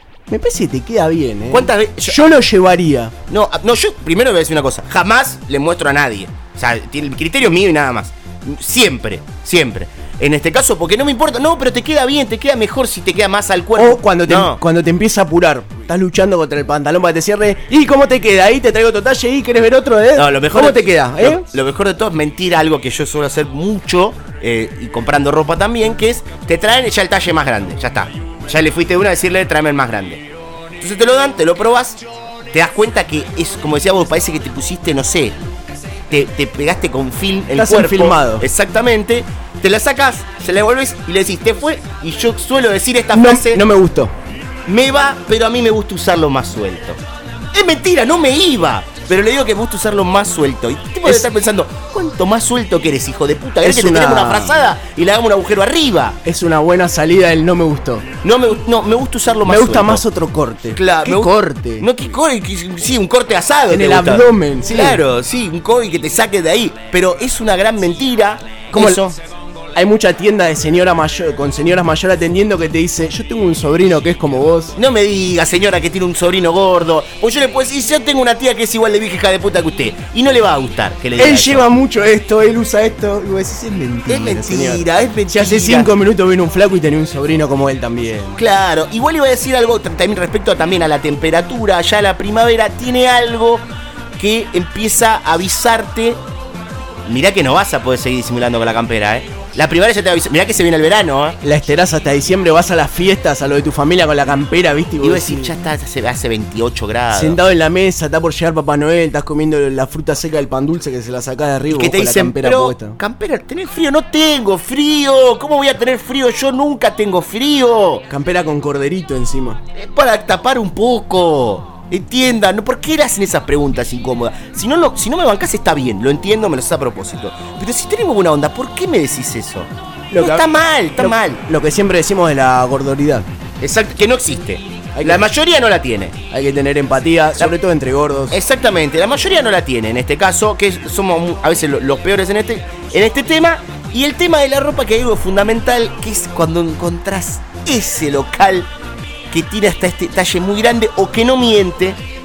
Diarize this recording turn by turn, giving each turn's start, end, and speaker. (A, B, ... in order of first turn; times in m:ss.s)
0:00.3-0:03.1 A
0:01.5-0:02.2 B
0:03.3-0:14.6 B
0:13.8-0:21.5 A
0:20.2-0:30.2 B
0:30.8-0:32.0 B
0:32.5-0:35.4 B
0:36.1-0:43.6 B
0:37.6-0:38.5 A
0:43.1-0:44.1 A
0:44.7-0:47.0 B
0:47.5-0:56.2 B
0:53.6-0:54.6 A
0:56.3-0:58.1 A
0:58.2-1:00.0 B
0:59.4-1:01.9 A
1:00.7-1:09.2 B
1:03.7-1:05.0 A
1:08.7-1:09.0 A
1:09.8-1:14.8 A
1:14.8-1:21.7 B
1:21.2-1:28.4 A
1:24.1-1:25.9 B
1:28.4-1:36.2 B
1:37.1-1:41.4 B
1:41.4-1:45.5 A
1:45.0-1:47.4 B
1:47.1-1:53.0 A
1:51.7-1:58.1 B
1:58.1-1:59.6 A
1:59.8-2:11.4 B
2:10.1-2:10.5 A
2:11.0-2:13.3 A
2:13.6-2:16.2 B
2:15.0-2:15.3 A
2:16.3-2:18.4 A
2:18.3-2:28.7 B
2:29.3-2:32.0 B